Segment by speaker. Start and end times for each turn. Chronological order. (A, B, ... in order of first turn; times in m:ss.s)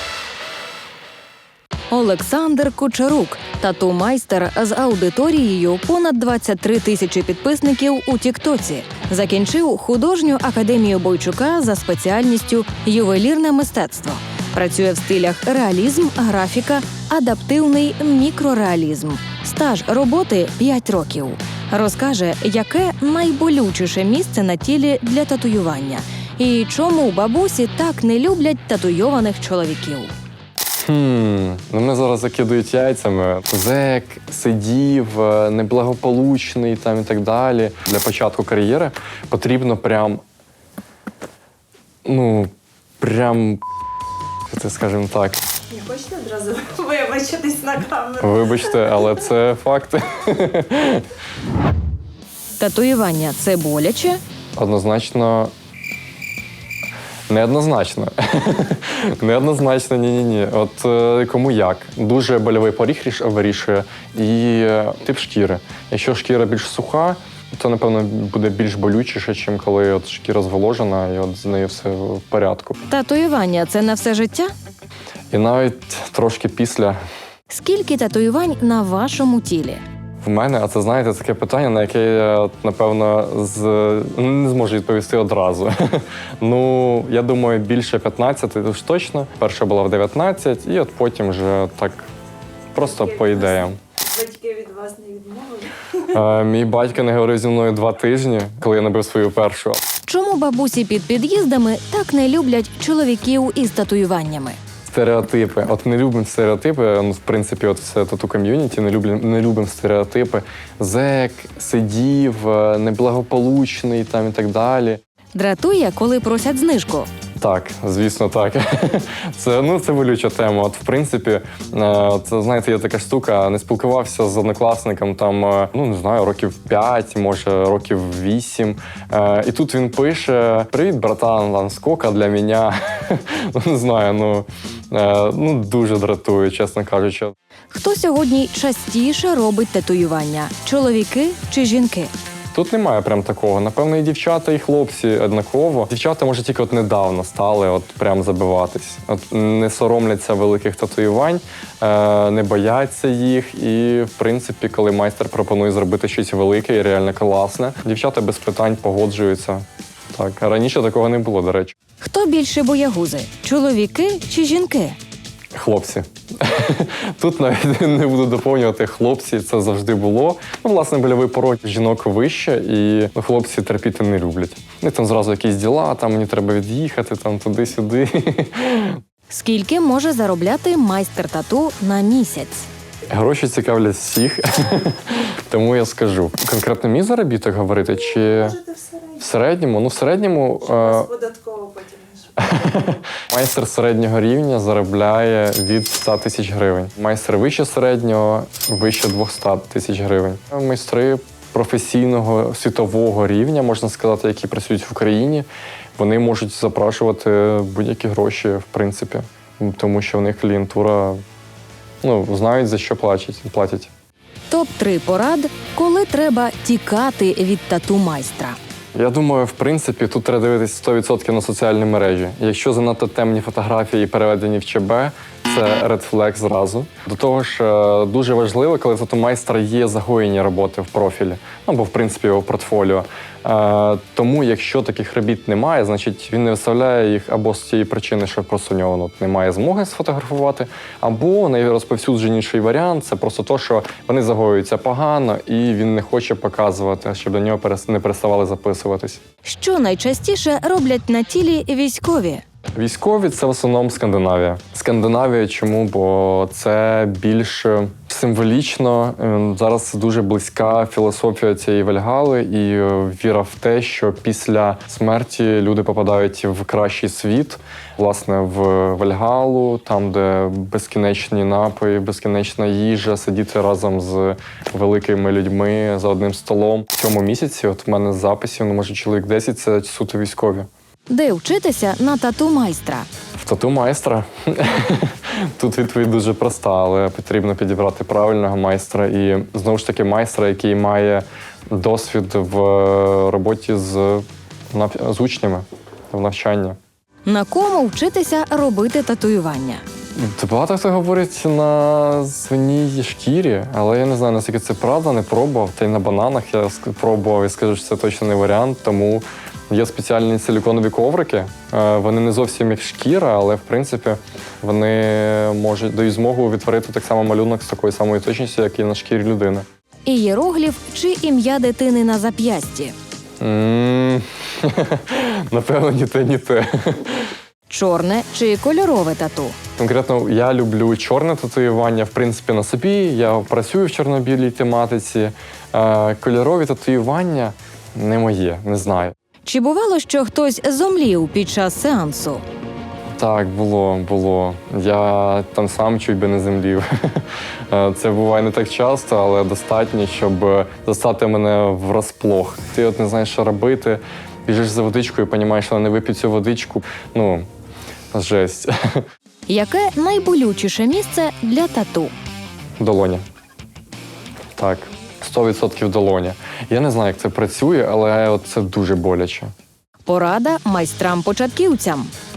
0:01.9-0:30.1 A
0:30.8-0:40.2 B
0:42.0-0:43.6 B
0:44.5-0:45.4 B
0:45.7-0:48.2 C
0:48.2-0:51.1 B
0:52.6-0:54.2 A
0:54.6-0:55.5 B
0:57.3-1:12.8 B
1:12.9-1:14.5 A
1:15.3-1:17.0 B
1:17.5-1:19.8 A
1:20.2-1:32.1 B
1:32.7-1:33.8 B
1:34.1-1:35.8 C
1:36.0-1:39.8 B
1:40.0-1:44.6 A
1:44.9-1:55.0 B
1:55.3-1:57.1 A
1:57.4-2:17.3 B
2:17.7-2:22.1 A
2:22.5-2:41.7 B
2:42.0-2:45.0 A
2:45.5-2:59.0 B
2:59.3-3:02.7 A
3:03.1-3:08.6 B
3:09.2-3:11.2 B
3:11.1-3:12.2 C
3:12.4-3:31.2 B
3:32.0-3:33.9 B
3:34.5-3:38.6 A
3:38.9-4:09.2 B
4:09.4-4:12.4 A
4:12.8-4:40.7 B
4:41.1-4:43.1 A
4:43.4-4:56.8 B
4:57.2-4:59.8 A
5:00.2-5:19.6 B
5:20.0-5:22.9 A
5:23.4-5:27.3 B
5:27.7-5:29.6 A
5:29.8-5:39.1 B
5:39.4-5:42.4 A
5:43.2-5:57.5 B
5:58.1-5:59.0 B
5:59.5-6:02.1 A
6:02.8-6:03.2 B
6:04.6-6:09.5 B
6:10.0-6:12.1 A